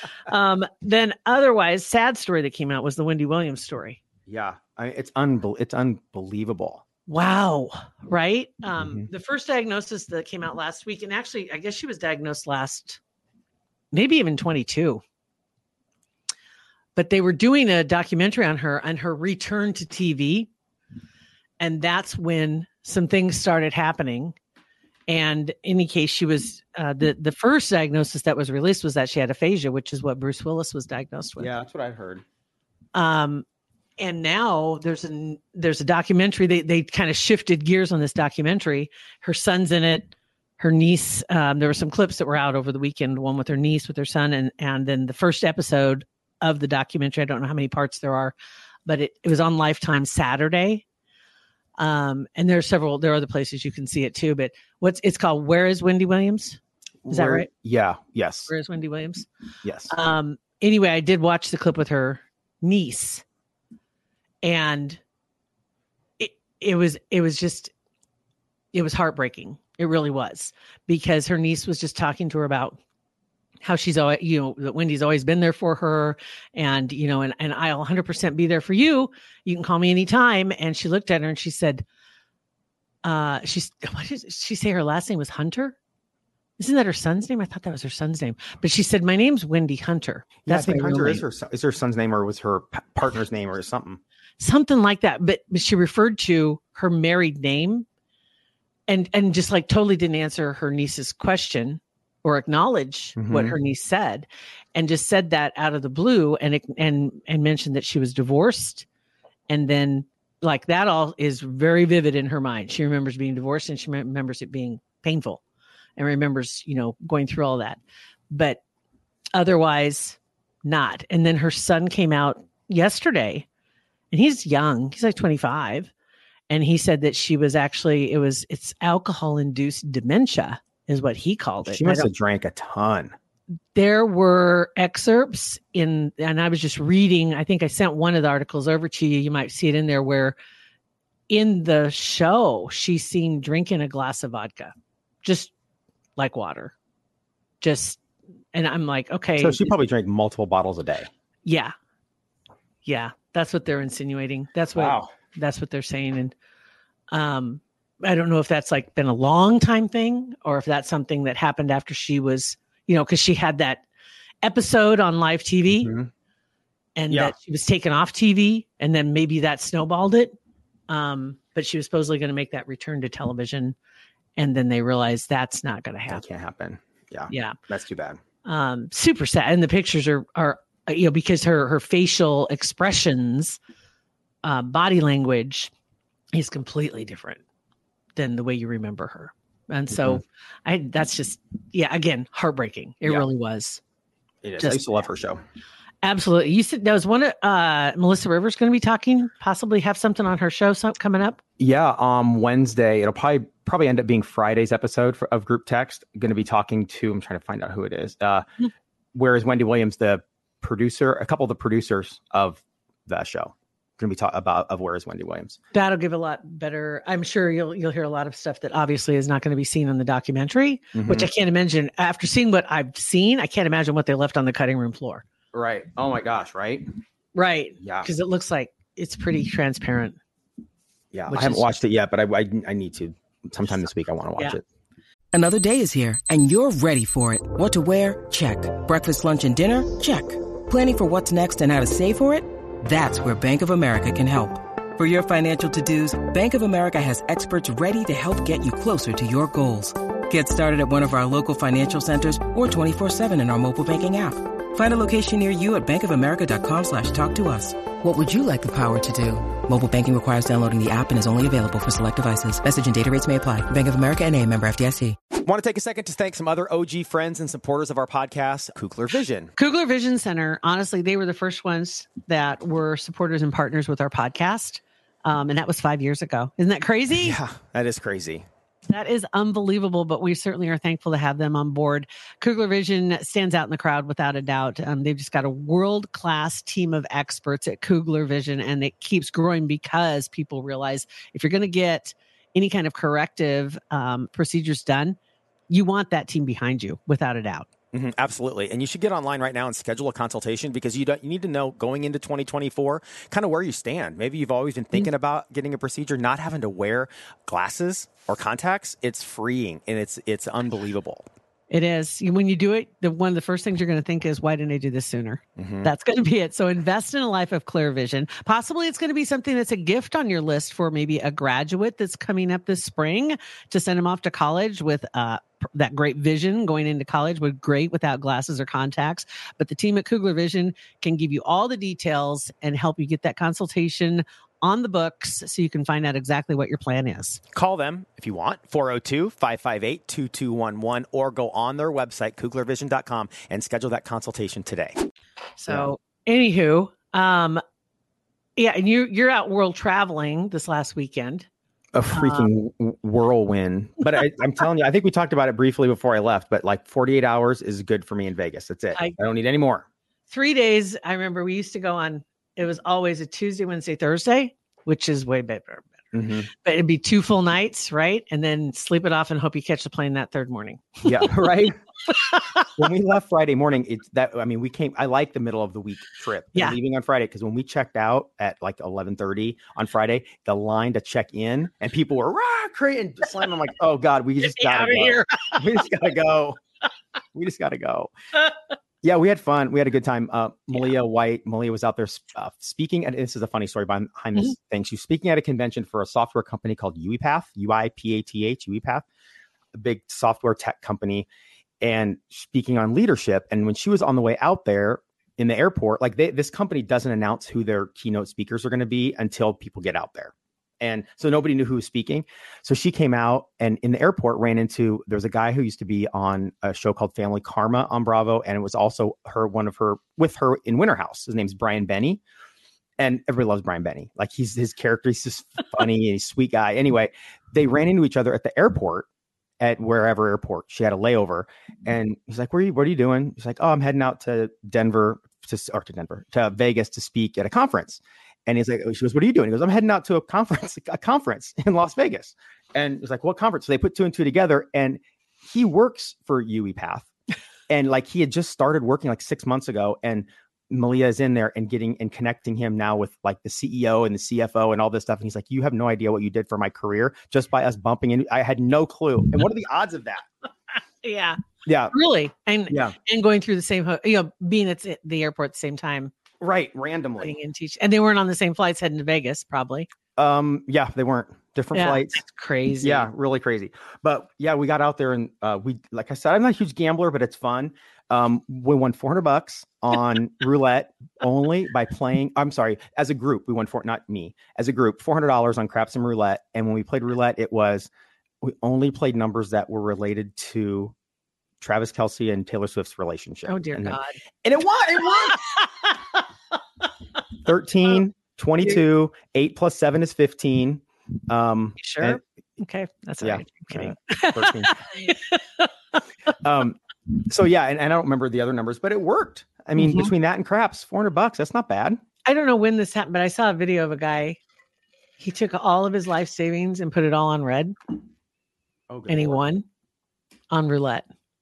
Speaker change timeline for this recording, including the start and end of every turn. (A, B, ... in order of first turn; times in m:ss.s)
0:00.2-0:04.0 A
0:04.3-0:06.8 B
0:07.1-0:13.0 A
0:08.8-0:09.1 B
0:13.9-0:15.0 A
0:17.0-0:20.5 A
0:21.6-0:24.4 A
0:25.1-0:31.5 A
0:31.4-0:32.2 B
0:32.9-0:33.4 A
0:34.0-0:48.3 A
0:48.8-0:50.8 A
0:51.8-0:56.6 A
0:57.0-0:58.5 B
0:57.1-0:57.5 A
0:58.5-0:59.3 A
0:59.6-0:59.9 B
0:59.9-1:03.2 A
1:04.4-1:05.0 A
1:06.2-1:07.7 A
1:08.7-1:12.8 A
1:13.6-1:21.8 A
1:23.0-1:25.8 A
1:26.6-1:31.2 A
1:30.4-1:34.0 B
1:34.4-1:37.8 A
1:38.9-1:48.8 A
1:43.2-1:43.5 B
1:49.5-1:55.4 A
1:56.0-1:58.6 A
1:59.3-2:03.4 A
2:04.1-2:05.9 A
2:06.5-2:12.1 A
2:11.6-2:13.1 B
2:13.7-2:20.4 A
2:21.3-2:25.5 A
2:26.2-2:26.7 A
2:27.6-2:28.0 A
2:28.5-2:29.7 A
2:29.4-2:31.1 B
2:31.4-2:31.7 A
2:32.8-2:36.3 A
2:34.8-2:35.1 B
2:37.1-2:43.8 A
2:44.4-2:45.9 A
2:45.7-2:46.1 B
2:47.0-2:50.3 A
2:50.9-2:53.7 A
2:54.4-2:56.2 A
2:56.1-2:58.2 B
2:57.3-2:57.6 A
2:58.4-3:03.6 A
3:04.4-3:05.7 A
3:06.3-3:07.4 A
3:08.2-3:13.8 A
3:09.9-3:10.2 B
3:14.4-3:15.4 B
3:14.6-3:14.9 A
3:16.0-3:21.4 A
3:21.6-3:28.4 B
3:29.1-3:35.6 B
3:35.7-3:45.2 A
3:40.9-3:41.3 B
3:45.5-3:46.8 B
3:47.3-3:50.2 A
3:47.8-3:48.1 B
3:51.1-3:54.6 B
3:51.3-3:51.7 A
3:55.3-4:25.2 C
4:25.4-4:29.5 B
4:29.6-4:37.4 A
4:37.2-4:38.4 B
4:38.9-4:55.2 A
4:55.7-4:57.7 A
4:57.9-5:11.3 B
5:11.7-5:37.4 A
5:15.6-5:15.9 B
5:37.5-5:45.0 B
5:45.6-5:47.6 A
5:48.6-5:51.5 A
5:51.9-5:59.8 B
5:52.1-5:52.5 A
6:00.3-6:11.3 A
6:06.1-6:06.5 B
6:11.0-6:11.8 B
6:12.1-6:12.7 A
6:12.8-6:26.6 B
6:24.4-6:25.6 A
6:27.3-6:28.1 B
6:29.0-6:39.0 B
6:39.7-6:41.3 B
6:41.8-7:02.2 B
7:03.0-7:09.1 B
7:09.6-7:27.1 B
7:27.7-7:40.2 B
7:41.0-7:41.4 A
7:41.6-7:41.9 B
7:41.9-7:46.1 A
7:42.7-7:42.9 B
7:46.4-7:47.4 B
7:47.2-7:49.9 A
7:50.2-7:52.2 B
7:51.7-7:53.1 A
7:52.8-8:07.9 B
8:08.4-8:10.9 B
8:11.6-8:15.5 B
8:13.5-8:14.2 A
8:17.4-8:22.2 B
8:21.8-8:25.7 A
8:23.2-8:24.8 B
8:26.4-8:32.0 B
8:29.8-8:30.1 A
8:32.2-8:34.4 A
8:35.2-8:37.7 A
8:38.9-8:39.4 B
8:39.1-8:39.6 A
8:40.5-8:41.1 A